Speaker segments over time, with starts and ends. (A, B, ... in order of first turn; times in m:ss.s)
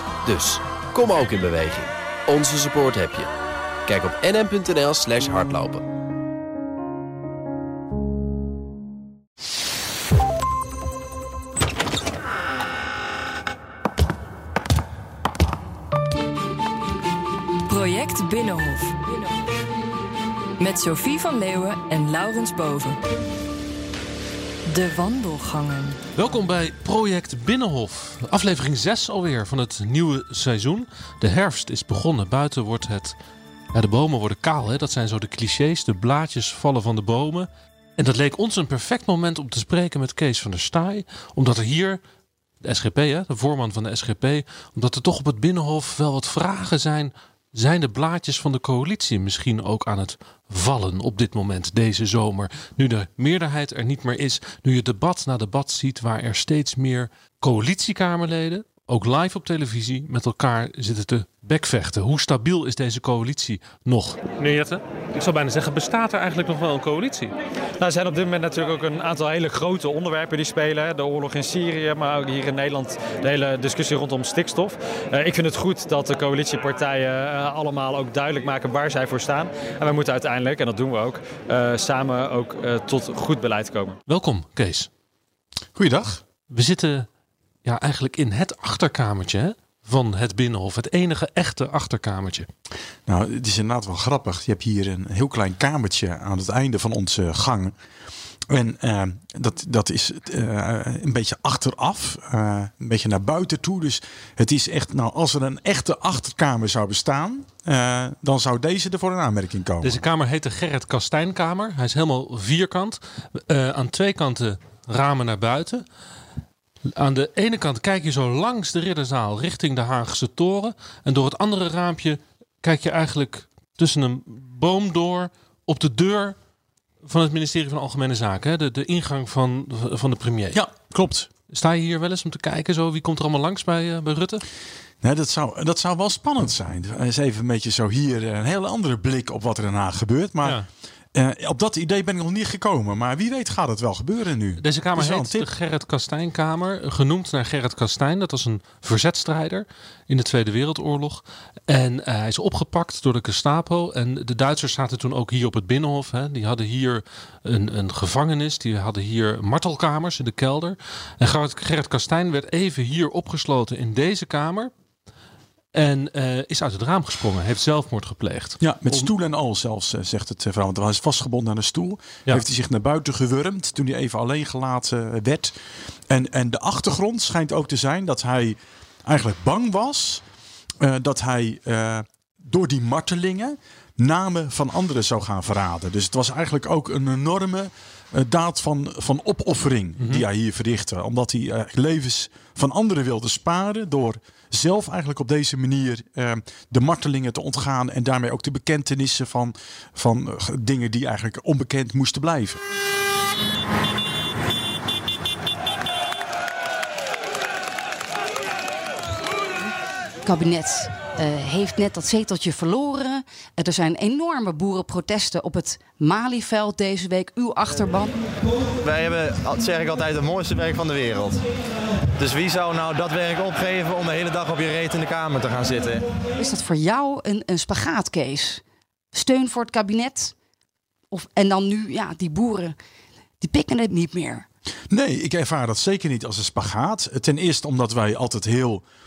0:00.2-0:03.3 A
0:03.9-0:05.8 A
0:17.6-0:19.2 B
0:20.6-0:23.0 B
0:24.6-0:26.0 B
0:26.2-0:33.2 C
0:33.7-0:42.0 C
0:42.6-1:04.5 C
1:05.2-1:07.2 C
1:07.8-1:24.0 D
1:24.0-1:24.9 C
1:25.7-1:26.2 E
1:26.5-1:27.1 C
1:27.6-1:32.5 C
1:33.1-1:37.7 E
1:38.5-1:50.0 E
1:49.8-1:55.8 C
1:56.9-2:06.3 C
2:07.0-2:10.6 C
2:10.5-2:11.3 E
2:11.5-2:14.4 C
2:15.0-2:20.6 E
2:21.1-2:25.5 E
2:24.6-2:44.7 C
2:45.7-2:49.1 C
2:48.6-2:55.5 E
2:56.1-3:00.2 E
3:00.8-3:22.6 E
3:10.0-3:10.2 C
3:30.2-3:38.1 F
3:38.8-3:41.4 G
3:42.1-3:46.0 G
3:46.4-3:50.3 F
3:51.1-3:52.8 F
3:53.4-3:54.4 F
3:54.9-3:58.8 E